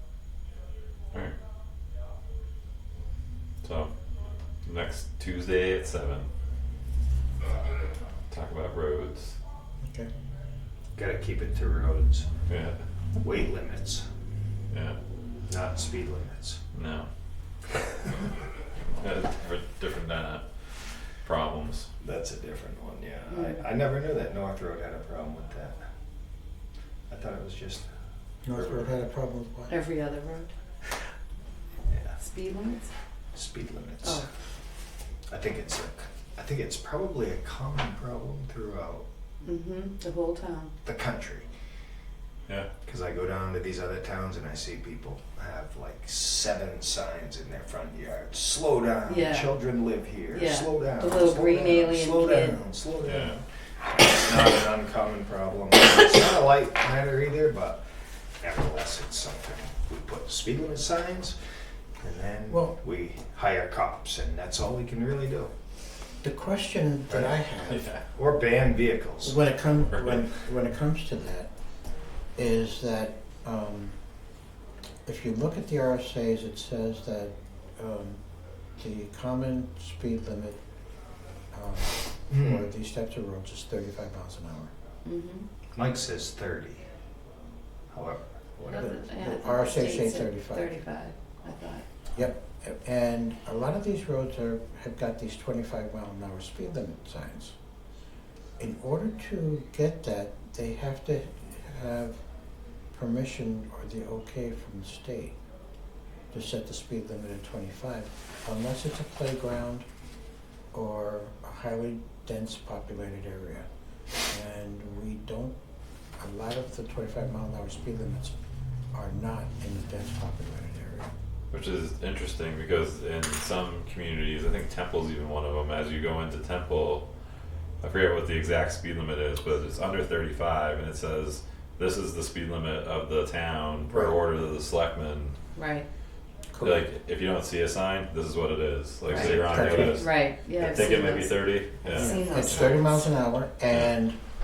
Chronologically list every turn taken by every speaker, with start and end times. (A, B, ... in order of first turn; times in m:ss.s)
0:03.6-0:03.9 A
0:04.6-0:06.3 A
0:08.3-0:09.4 A
0:09.8-0:10.1 B
0:10.9-0:12.3 C
0:12.5-0:12.8 A
0:13.2-0:14.0 C
0:14.7-0:15.0 A
0:15.4-0:16.6 C
0:16.7-0:17.1 A
0:18.8-0:21.9 A
0:22.0-0:25.8 C
0:23.3-0:23.6 D
0:27.1-0:27.9 C
0:28.4-0:29.7 B
0:28.5-0:28.9 C
0:29.7-0:30.5 D
0:31.9-0:32.2 C
0:32.2-0:32.9 D
0:33.3-0:34.2 C
0:35.3-0:39.0 C
0:39.4-0:40.7 D
0:40.8-0:41.5 C
0:42.8-0:57.8 C
0:49.0-0:49.6 D
0:50.3-0:52.6 D
0:53.0-0:53.4 A
0:58.4-1:01.4 C
1:02.0-1:05.5 C
1:02.5-1:02.8 B
1:06.2-1:07.9 B
1:07.1-1:07.4 C
1:07.6-1:08.0 A
1:08.1-1:09.4 C
1:09.2-1:11.5 B
1:09.9-1:10.2 A
1:12.4-1:14.0 B
1:15.0-1:18.2 B
1:18.8-1:20.6 B
1:21.5-1:24.7 B
1:22.3-1:22.6 C
1:25.0-1:25.5 D
1:25.7-1:26.8 C
1:27.9-1:28.9 C
1:28.7-1:31.8 D
1:28.7-1:30.7 B
1:32.1-1:37.5 B
1:38.6-1:42.2 B
1:42.9-1:45.4 B
1:46.3-1:49.8 B
1:50.7-1:53.7 B
1:54.3-1:55.5 B
1:56.2-1:58.4 B
1:58.9-2:01.1 B
2:01.5-2:07.0 A
2:07.8-2:15.4 A
2:13.9-2:14.2 B
2:15.6-2:15.8 D
2:16.5-2:16.8 B
2:16.6-2:22.2 A
2:19.1-2:19.7 C
2:19.1-2:20.1 B
2:19.1-2:23.0 D
2:21.9-2:24.2 B